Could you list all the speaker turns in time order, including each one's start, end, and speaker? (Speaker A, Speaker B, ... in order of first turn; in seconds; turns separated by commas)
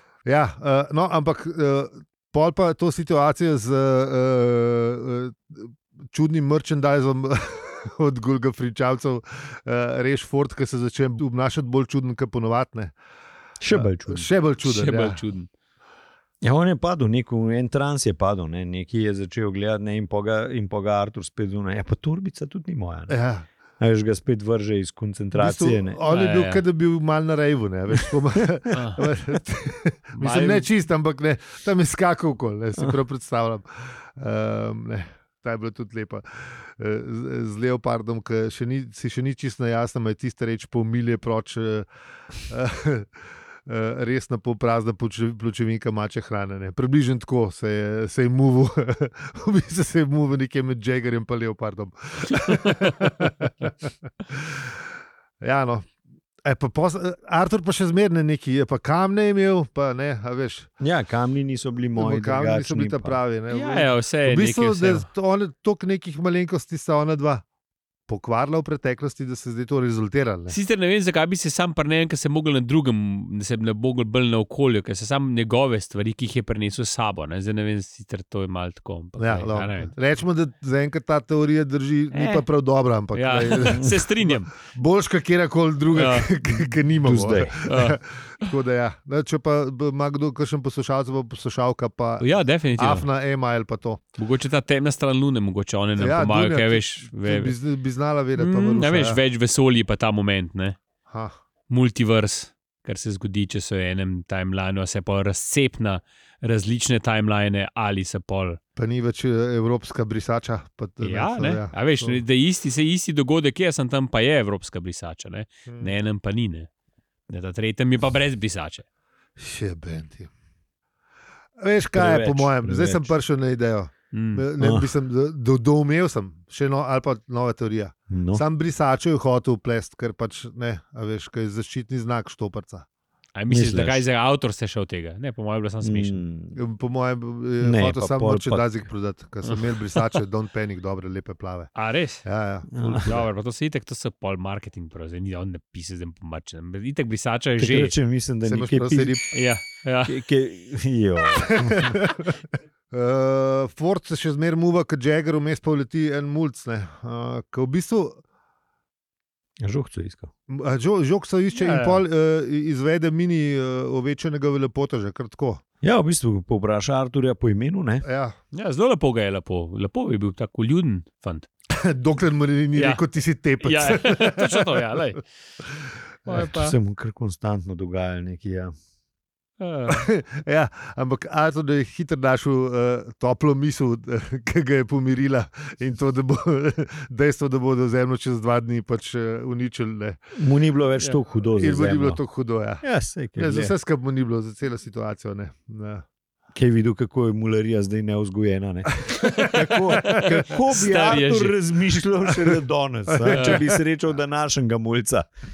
Speaker A: 0.3-12.9, Speaker B: 13.6-14.3, Speaker A: 13.7-15.2, Speaker C: 14.6-15.5, Speaker B: 16.4-23.1, Speaker A: 23.1-23.5, Speaker B: 23.8-26.0, Speaker A: 25.3-41.9, Speaker C: 26.1-26.6, Speaker C: 28.7-29.1, Speaker C: 30.2-30.7, Speaker A: 42.4-43.1, Speaker A: 43.7-53.7, Speaker A: 54.3-54.6, Speaker A: 55.4-55.9, Speaker A: 56.4-60.7, Speaker B: 60.8-63.2, Speaker A: 62.0-67.4, Speaker C: 63.5-65.1, Speaker A: 68.1-70.6, Speaker C: 70.5-79.9, Speaker A: 79.2-94.0, Speaker C: 82.1-82.5, Speaker C: 83.1-84.5, Speaker C: 85.9-86.3, Speaker B: 87.0-87.6, Speaker C: 87.7-88.0, Speaker C: 92.2-93.1, Speaker C: 94.2-97.5, Speaker A: 96.0-99.2, Speaker C: 98.4-100.8, Speaker A: 101.1-101.3, Speaker C: 101.7-108.6, Speaker A: 108.8-112.2, Speaker C: 111.0-116.7, Speaker A: 115.7-115.9, Speaker C: 117.3-118.8, Speaker A: 119.4-120.3, Speaker A: 121.6-132.8, Speaker B: 122.0-123.2, Speaker C: 124.1-124.5, Speaker B: 124.6-124.9, Speaker B: 128.1-128.4, Speaker C: 133.3-136.2, Speaker B: 133.5-134.0, Speaker B: 135.8-136.6, Speaker A: 136.6-143.3, Speaker B: 137.6-138.8, Speaker C: 139.4-140.2, Speaker C: 141.8-142.2, Speaker B: 142.8-143.1, Speaker C: 143.0-147.9, Speaker B: 147.6-149.2, Speaker A: 148.4-149.3, Speaker C: 149.3-150.2, Speaker B: 150.1-152.0, Speaker A: 151.3-152.4, Speaker A: 152.9-158.2, Speaker B: 159.6-160.3, Speaker A: 160.5-165.6, Speaker C: 161.5-162.0, Speaker B: 165.8-168.1, Speaker A: 168.0-168.3, Speaker C: 168.5-171.5, Speaker A: 171.7-174.9, Speaker C: 172.7-173.0, Speaker C: 173.6-175.2, Speaker C: 176.3-176.8, Speaker B: 176.3-178.7, Speaker C: 179.6-180.1, Speaker A: 179.9-190.3, Speaker B: 190.3-192.2, Speaker A: 191.5-196.1, Speaker B: 192.8-193.7, Speaker B: 196.5-205.3, Speaker A: 199.0-200.6, Speaker C: 199.2-201.6, Speaker A: 202.3-202.6, Speaker A: 203.1-203.8, Speaker C: 203.3-203.6